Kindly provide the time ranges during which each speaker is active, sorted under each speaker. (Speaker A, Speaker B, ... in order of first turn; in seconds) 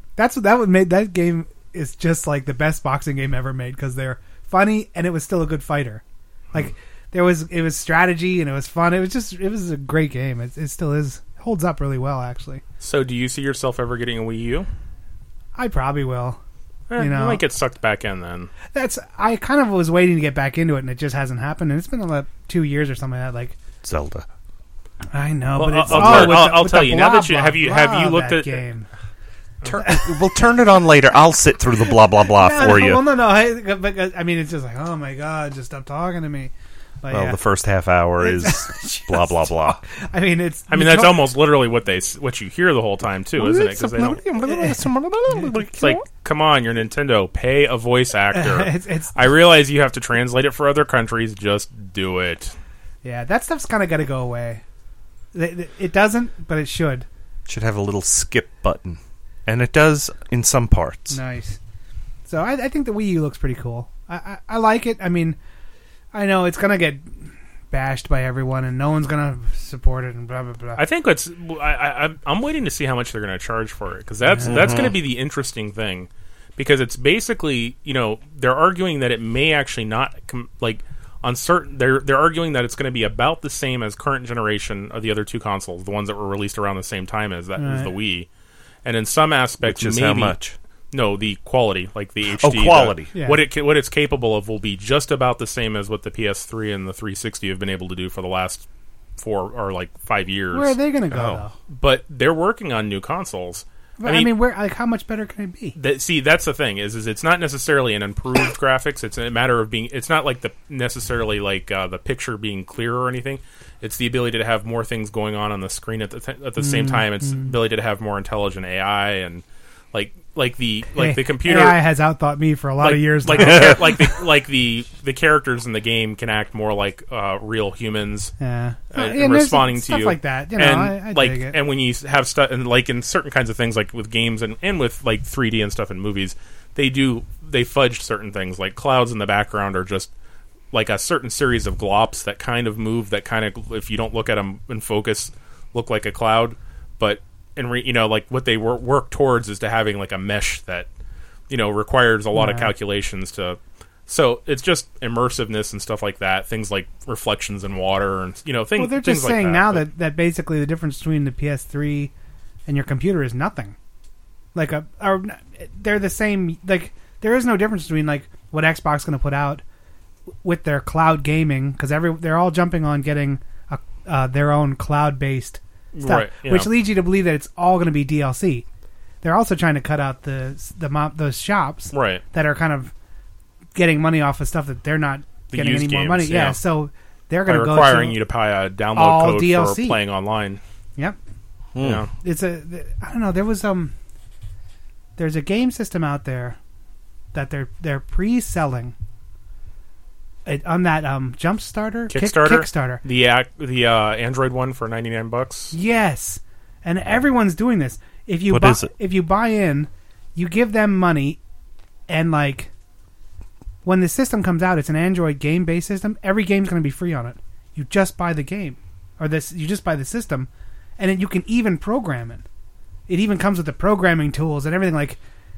Speaker A: 0.2-6.0, 6.5-12.6, 15.6-16.4, 17.0-17.4, 18.7-23.6, 25.1-28.9, 29.8-30.1, 32.2-36.5, 37.0-37.4, 38.2-41.2, 44.5-44.8, 48.3-49.1, 53.0-54.6, 55.3-57.1, 61.1-61.6, 62.3-65.4, 66.1-70.8, 74.3-74.7, 87.6-87.9, 93.1-93.4, 100.5-101.5, 104.0-105.8, 116.6-117.5, 121.0-124.1, 128.4-131.6, 152.3-152.7, 158.8-162.1, 162.7-163.8, 164.6-169.6, 170.4-178.7, 179.2-182.9, 183.8-188.2, 188.9-190.0, 192.2-193.9, 195.2-196.6, 197.3-198.9, 200.5-203.0, 205.7-211.4, 212.1-212.7, 213.8-222.4, 223.1-225.2
Speaker B: 12.8-14.7, 16.9-18.5, 25.6-28.7, 40.7-44.2, 45.8-52.5, 70.8-88.3, 88.8-90.4, 90.9-98.7, 99.2-100.8, 101.7-104.3, 105.8-121.8, 122.8-128.3, 128.9-140.1, 140.7-150.9, 151.5-159.8, 175.9-176.7, 181.9-182.2, 185.5-186.6, 187.5-190.6, 191.8-192.1, 202.1-205.7
Speaker C: 23.8-24.3, 25.9-26.5, 29.6-33.0, 37.1-39.8, 43.4-46.0, 57.5-61.2, 74.5-75.0, 89.6-90.5, 92.4-93.1, 101.1-101.4, 123.3-123.8, 191.8-192.1, 208.5-208.9